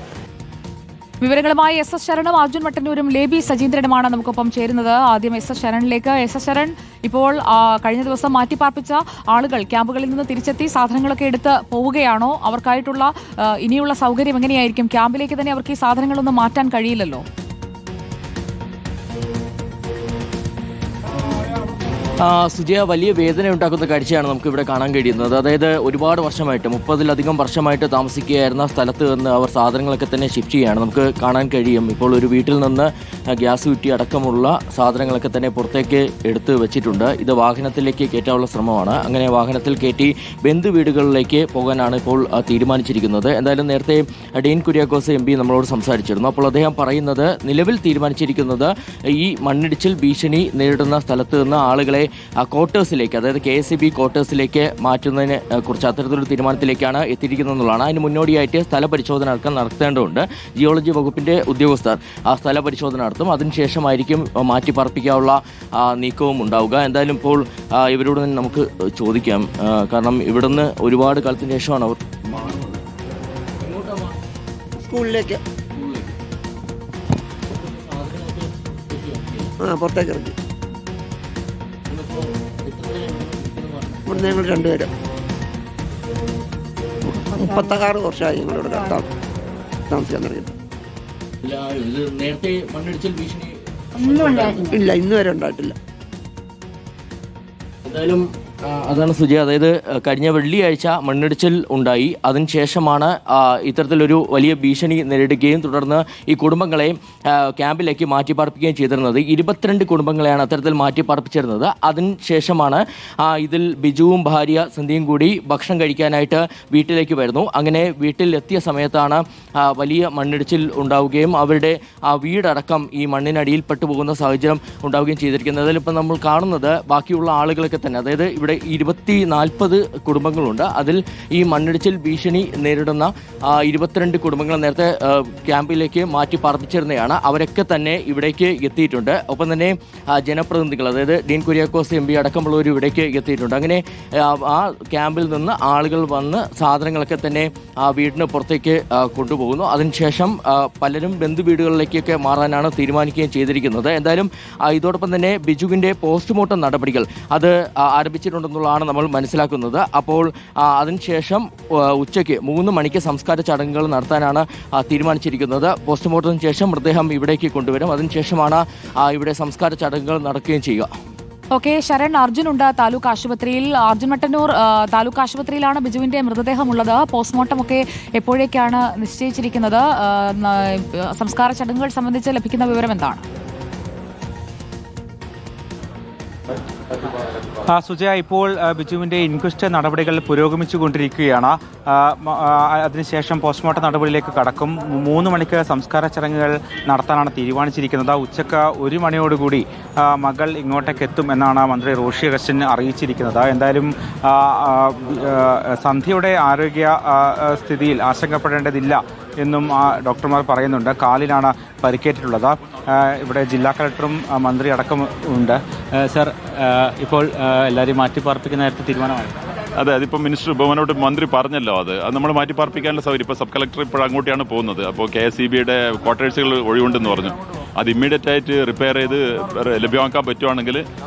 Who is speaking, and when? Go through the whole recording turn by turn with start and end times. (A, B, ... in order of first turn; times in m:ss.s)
0:01.2-0:17.2 A
0:22.2-1:12.8 B
1:13.7-1:14.0 B
1:14.8-1:15.4 C
1:15.8-1:16.0 B
1:17.5-1:19.5 B
1:19.6-1:20.3 C
1:21.9-1:22.2 B
1:22.8-1:24.0 B
1:24.0-1:24.9 C
1:27.0-1:29.1 C
1:29.9-1:30.5 C
1:31.4-1:33.5 B
1:34.0-1:34.7 B
1:34.7-1:35.7 C
1:37.9-2:50.9 B
2:51.5-3:03.2 A
3:07.7-3:39.4 D
3:39.8-3:50.8 E